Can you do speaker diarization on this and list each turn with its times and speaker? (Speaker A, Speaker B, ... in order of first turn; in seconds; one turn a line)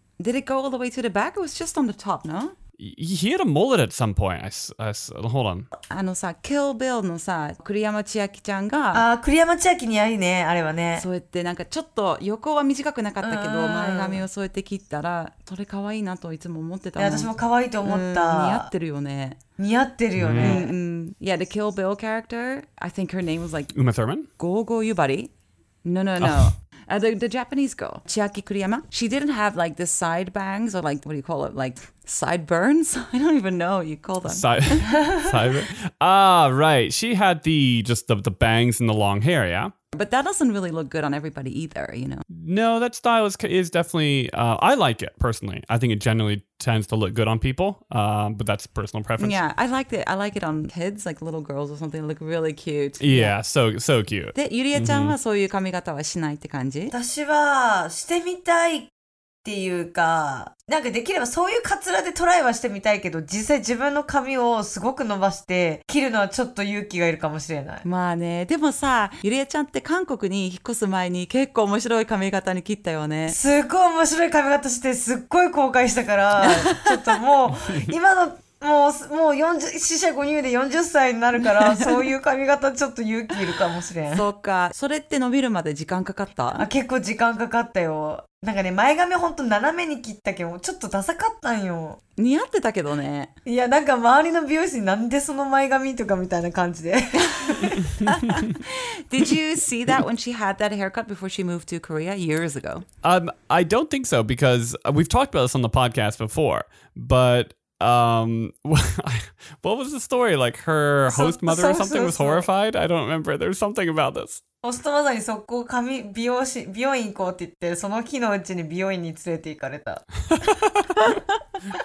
Speaker A: 0.2-2.6
Speaker B: 2.8-5.7
Speaker A: 5.9-9.1
Speaker C: 8.9-11.1
Speaker A: 11.0-17.3
Speaker C: 13.2-14.2
Speaker C: 17.0-18.7
Speaker A: 17.9-19.4
Speaker C: 19.6-20.7
Speaker B: 20.2-20.6
Speaker A: 20.4-23.7
Speaker B: 23.7-24.3
Speaker A: 24.4-25.3
Speaker A: 25.8-35.0
Speaker B: 26.2-26.5
Speaker B: 34.3-39.7
Speaker A: 39.9-42.2
Speaker B: 42.3-49.4
Speaker A: 49.2-53.3
Speaker B: 53.0-55.1
Speaker A: 54.4-56.9
Speaker C: 56.9-58.9
Speaker C: 59.4-67.8
Speaker A: 67.8-73.4
Speaker C: 73.3-84.2
Speaker A: 76.4-77.0
Speaker A: 84.1-86.7
Speaker C: 86.5-92.0
Speaker A: 92.2-93.3
Speaker C: 93.5-98.1
Speaker A: 97.3-102.8
Speaker B: 98.0-98.6
Speaker B: 103.0-114.4
Speaker C: 111.1-112.5
Speaker C: 114.6-120.0
Speaker A: 121.0-121.2